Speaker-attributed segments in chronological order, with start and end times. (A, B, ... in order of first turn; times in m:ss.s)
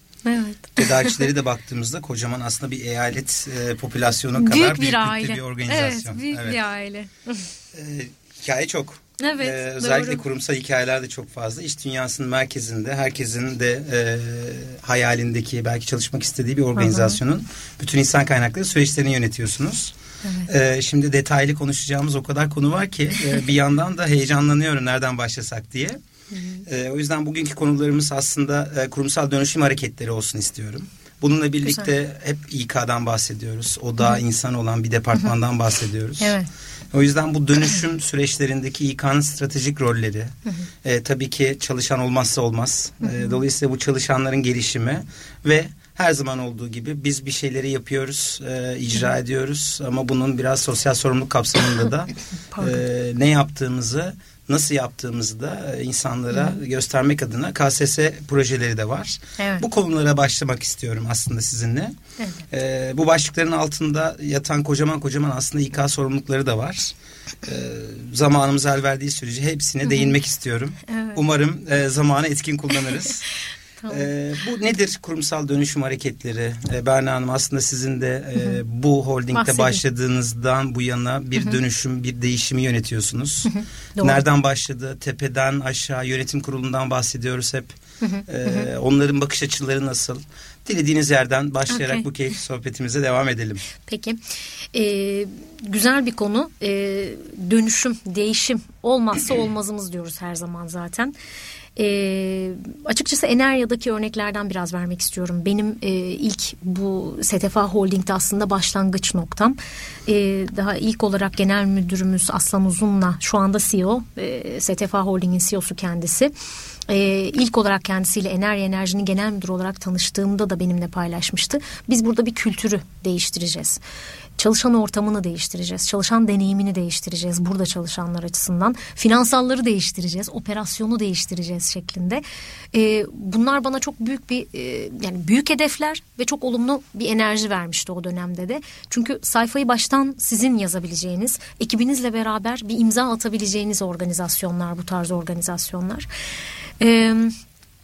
0:00.2-0:01.2 A
0:00.8-0:06.6 B
0:04.3-0:07.5 A
0:07.7-0:19.9 B
0:09.2-0:10.2 A
0:16.8-0:17.2 A
0:20.5-0:26.0 B
0:26.3-0:26.6 A
0:26.6-0:36.4 B
0:36.2-0:36.5 A
0:36.9-1:01.9 B
0:43.0-0:43.3 A
0:52.5-0:52.8 A
0:59.4-0:59.6 A
1:02.5-1:13.2 B
1:09.8-1:10.1 A
1:10.9-1:11.2 A
1:13.8-1:14.1 A
1:13.9-1:27.7 B
1:19.3-1:19.8 A
1:23.5-1:24.2 A
1:28.0-1:28.7 A
1:28.3-1:33.6 B
1:31.7-1:32.0 A
1:33.8-1:34.2 A
1:34.7-1:41.1 A
1:41.8-1:56.3 A
1:56.9-2:03.8 A
2:04.4-2:26.1 A
2:26.8-2:27.3 A